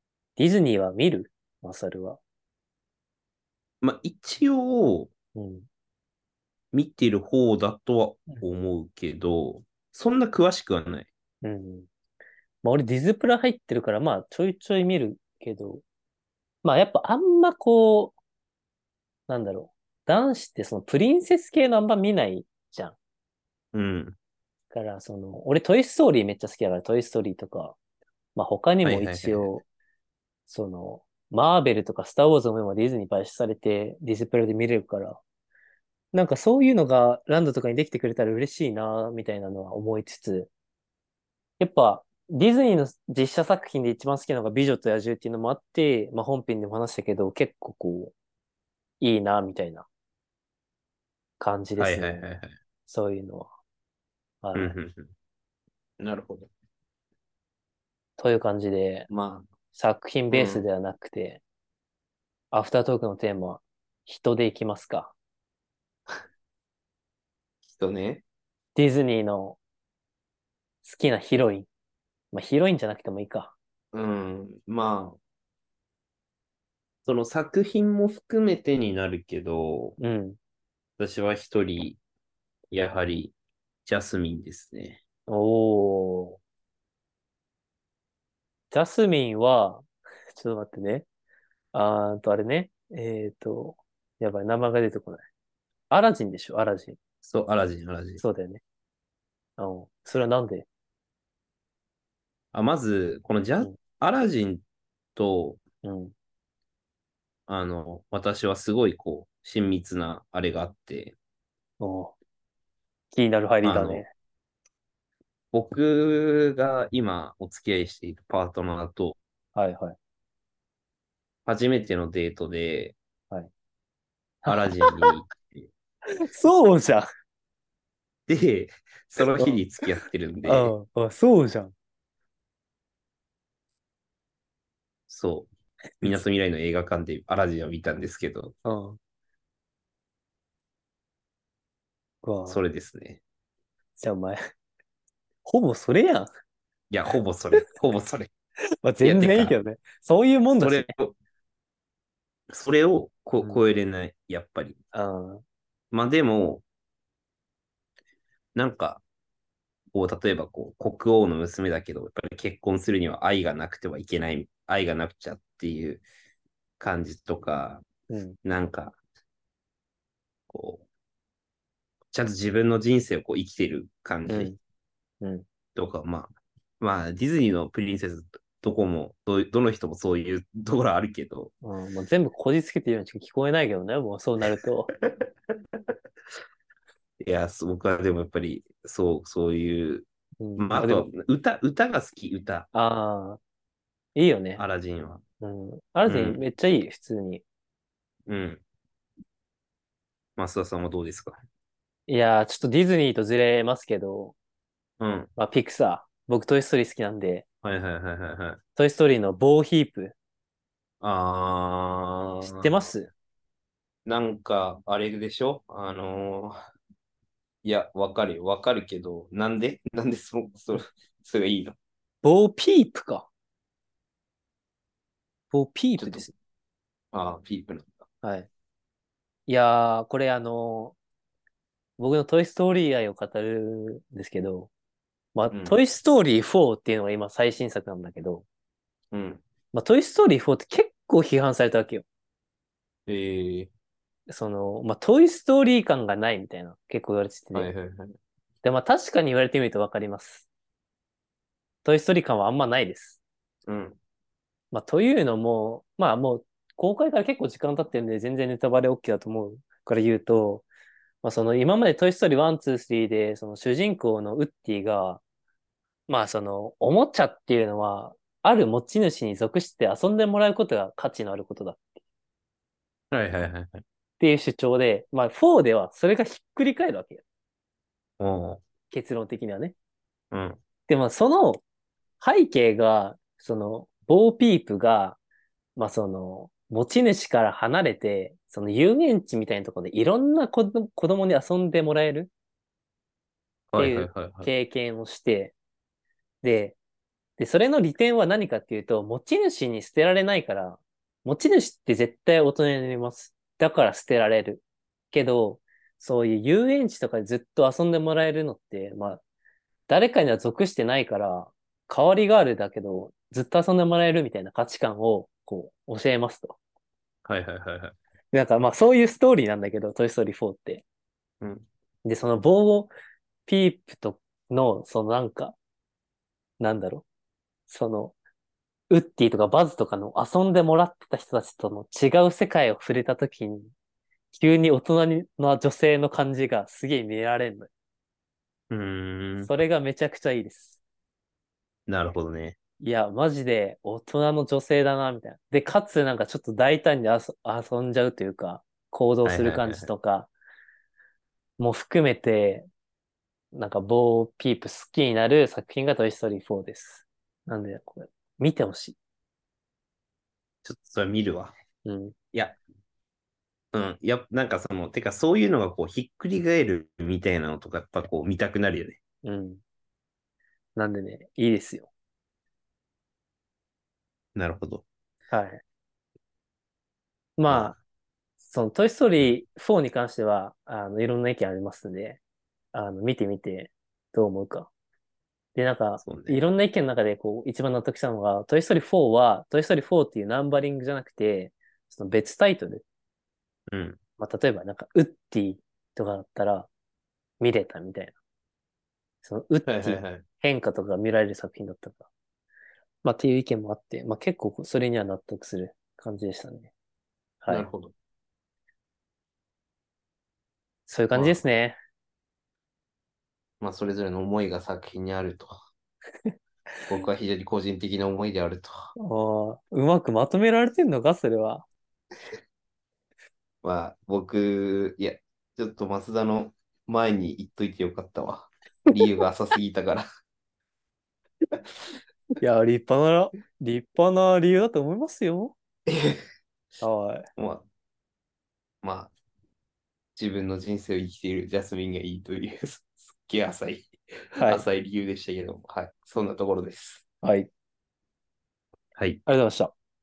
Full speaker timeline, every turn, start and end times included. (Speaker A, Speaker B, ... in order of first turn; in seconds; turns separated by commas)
Speaker A: 0.4-2.2, Speaker B: 3.8-5.1, Speaker A: 5.3-5.7, Speaker B: 6.7-11.1, Speaker A: 11.4-11.9, Speaker A: 12.6-15.8, Speaker A: 16.6-18.1, Speaker A: 19.3-23.0, Speaker B: 23.7-24.1, Speaker A: 24.7-27.8, Speaker A: 28.4-29.6, Speaker B: 28.8-29.5, Speaker A: 30.5-35.2, Speaker A: 36.1-40.5, Speaker A: 41.6-48.1, Speaker A: 49.0-49.9, Speaker A: 51.4-52.2, Speaker B: 51.8-52.5, Speaker A: 52.9-53.5, Speaker A: 54.4-54.8, Speaker B: 54.5-55.1, Speaker B: 56.0-56.5, Speaker A: 58.2-59.1, Speaker B: 59.1-59.5, Speaker A: 59.7-61.4, Speaker B: 60.3-60.6, Speaker A: 62.5-65.1, Speaker B: 67.6-68.2, Speaker A: 68.8-69.6, Speaker A: 70.8-71.7, Speaker A: 72.3-73.5, Speaker B: 73.9-75.2, Speaker B: 77.0-80.0, Speaker A: 80.0-80.4, Speaker B: 81.0-82.0, Speaker B: 82.7-83.3, Speaker B: 83.9-85.0, Speaker A: 85.3-86.4, Speaker A: 88.7-91.0, Speaker A: 91.7-95.2, Speaker A: 95.9-97.0, Speaker B: 97.2-98.2, Speaker A: 98.2-98.6, Speaker A: 99.6-100.7, Speaker B: 102.5-104.6, Speaker B: 105.2-105.6, Speaker A: 105.8-106.1, Speaker B: 107.5-111.2, Speaker A: 111.8-112.2, Speaker A: 113.1-114.1, Speaker B: 113.6-114.0, Speaker B: 115.5-119.2, Speaker A: 119.5-120.0, Speaker B: 121.5-123.0, Speaker A: 124.4-125.1, Speaker B: 124.5-125.7, Speaker A: 126.1-127.1, Speaker B: 128.3-130.7, Speaker A: 129.3-129.6, Speaker A: 130.4-131.7, Speaker B: 135.1-135.5, Speaker B: 136.0-138.6, Speaker A: 138.7-139.0, Speaker A: 142.2-142.6, Speaker B: 142.5-143.2, Speaker A: 144.0-144.4, Speaker A: 145.4-146.3, Speaker B: 146.9-148.3, Speaker A: 148.8-150.9, Speaker B: 149.0-149.6, Speaker B: 150.6-151.2, Speaker B: 152.5-154.8, Speaker A: 154.9-155.4, Speaker B: 155.9-156.6, Speaker B: 158.5-159.0, Speaker B: 159.9-166.0, Speaker B: 166.8-167.8, Speaker A: 168.1-168.4, Speaker B: 168.4-169.0, Speaker B: 170.5-170.8, Speaker B: 172.1-174.5, Speaker A: 174.3-174.6, Speaker B: 175.8-181.5, Speaker A: 181.6-184.9, Speaker B: 184.9-185.3, Speaker B: 187.2-192.7, Speaker A: 190.4-191.1, Speaker A: 192.7-193.4, Speaker A: 194.2-194.6, Speaker B: 194.6-195.2, Speaker A: 195.4-197.4, Speaker B: 196.1-196.4, Speaker B: 198.3-198.6, Speaker B: 200.4-201.4, Speaker A: 202.1-204.3, Speaker B: 205.0-205.3, Speaker A: 205.3-207.4, Speaker B: 207.6-208.6, Speaker A: 208.8-210.2, Speaker B: 211.0-212.9, Speaker A: 212.4-213.1, Speaker B: 214.1-216.6, Speaker B: 217.6-221.8, Speaker A: 222.2-223.3, Speaker A: 225.5-226.3, Speaker B: 226.0-226.2, Speaker B: 227.1-227.9, Speaker A: 228.2-228.5, Speaker A: 229.5-231.0, Speaker A: 232.0-234.7, Speaker A: 235.3-238.4, Speaker B: 235.5-235.8, Speaker B: 239.1-239.4, Speaker A: 239.7-242.1, Speaker B: 243.1-243.7, Speaker A: 244.3-247.7, Speaker B: 247.5-248.2, Speaker A: 248.6-250.5, Speaker A: 251.8-253.2, Speaker B: 253.7-254.0, Speaker A: 254.7-260.7, Speaker A: 261.2-265.2, Speaker A: 266.1-271.8, Speaker B: 273.1-273.8, Speaker A: 274.2-277.2, Speaker B: 278.2-278.6, Speaker A: 278.9-279.8, Speaker B: 280.3-280.6, Speaker A: 280.9-281.6, Speaker A: 282.2-285.2, Speaker A: 285.8-292.3, Speaker B: 293.7-294.5, Speaker A: 293.8-295.5, Speaker A: 296.4-296.8, Speaker A: 297.4-309.2, Speaker A: 309.9-316.6, Speaker B: 317.2-318.0, Speaker A: 318.3-320.8, Speaker B: 321.4-321.7, Speaker A: 322.0-322.9, Speaker A: 323.5-325.6, Speaker A: 326.6-327.0, Speaker A: 327.7-328.1, Speaker A: 328.9-333.7, Speaker A: 334.3-337.7, Speaker B: 338.7-339.5, Speaker A: 339.4-340.8, Speaker B: 341.9-342.6, Speaker A: 342.8-350.3, Speaker B: 349.2-349.9, Speaker A: 351.6-352.7, Speaker A: 353.5-359.0, Speaker B: 360.6-361.5, Speaker A: 361.8-362.1, Speaker B: 362.3-362.6, Speaker B: 363.7-369.0, Speaker A: 369.2-369.6, Speaker A: 370.8-371.9, Speaker B: 374.4-374.8, Speaker A: 375.3-375.6, Speaker A: 377.4-377.8, Speaker B: 377.5-377.8, Speaker A: 378.4-382.2, Speaker A: 382.7-384.7, Speaker A: 385.5-392.8, Speaker B: 386.0-386.4, Speaker B: 393.7-394.0, Speaker A: 394.2-396.7, Speaker A: 397.4-398.2, Speaker A: 399.2-402.1, Speaker B: 399.7-400.2, Speaker A: 403.0-406.7, Speaker A: 407.4-407.7, Speaker B: 407.5-407.9, Speaker A: 410.9-411.8, Speaker B: 411.1-411.4, Speaker B: 413.6-415.6, Speaker B: 416.9-418.9, Speaker A: 419.0-421.7, Speaker B: 423.6-430.1, Speaker A: 432.4-435.6, Speaker B: 435.9-436.2, Speaker A: 436.8-437.3, Speaker B: 437.4-437.6, Speaker B: 438.8-439.1, Speaker B: 440.2-447.0, Speaker A: 444.4-444.6, Speaker A: 447.2-447.5, Speaker B: 448.9-449.2, Speaker A: 449.2-449.7